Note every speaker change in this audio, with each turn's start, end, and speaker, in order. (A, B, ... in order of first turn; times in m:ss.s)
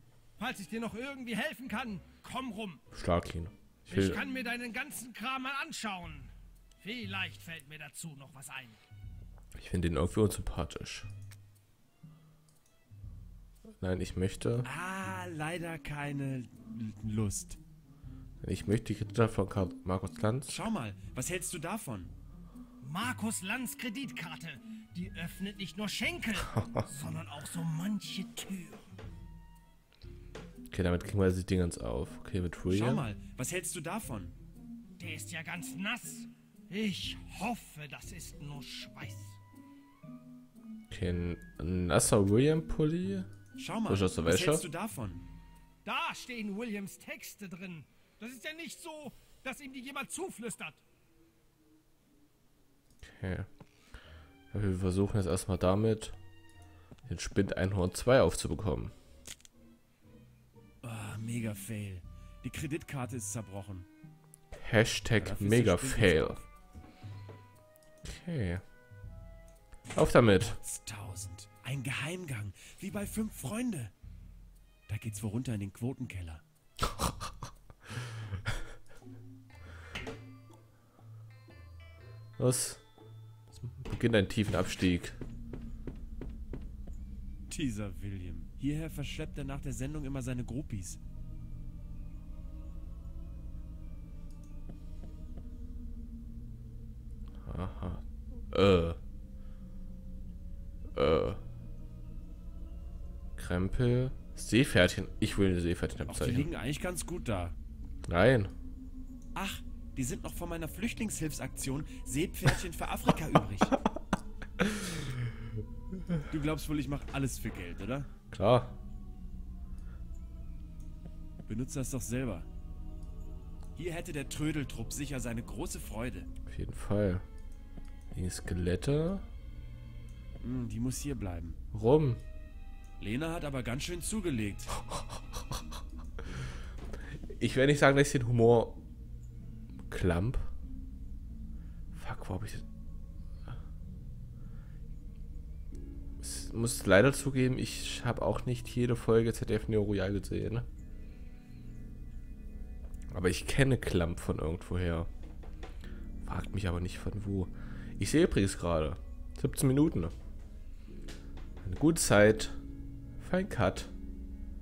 0:00.4-0:02.8 A
0:02.9-0:04.2 B
0:03.9-0:08.8 A
0:09.6-0:11.1 B
0:13.8-0:14.7 B
0:14.6-0:17.6 C
0:18.4-0:20.6 B
0:20.5-0:22.1 C
0:22.8-0:28.9 A
0:30.7-0:33.1 B
0:32.7-0:34.4 C
0:35.0-0:39.4 A
0:40.9-0:43.3 B
0:43.6-0:45.2 C
0:43.9-0:44.7 B
0:45.8-0:50.8 A
0:53.0-0:53.5 B
0:54.5-0:56.2 B
0:57.1-0:58.9 B
1:00.8-1:03.9 C
1:04.5-1:06.4 B
1:05.2-1:06.4 C
1:08.0-1:08.6 B
1:09.9-1:10.6 B
1:10.4-1:13.9 C
1:14.9-1:16.4 C
1:22.4-1:22.8 B
1:23.6-1:25.2 B
1:27.5-1:31.0 C
1:37.4-1:39.0 B
1:40.9-1:41.4 B
1:43.4-1:46.5 B
1:46.1-1:47.6 C
1:48.1-1:48.5 B
1:49.4-1:53.8 C
1:54.6-1:55.0 B
1:56.3-1:58.1 C
1:58.3-1:58.8 B
2:01.5-2:02.5 C
2:03.8-2:06.3 C
2:06.5-2:07.2 B
2:08.1-2:09.3 B
2:10.4-2:11.6 C
2:11.7-2:12.2 B
2:13.0-2:14.8 C
2:17.3-2:18.8 B
2:19.9-2:20.5 B
2:21.9-2:22.6 B
2:26.2-2:30.7 B
2:33.1-2:35.1 B
2:36.2-2:40.1 B
2:41.6-2:42.6 B
2:43.2-2:43.9 B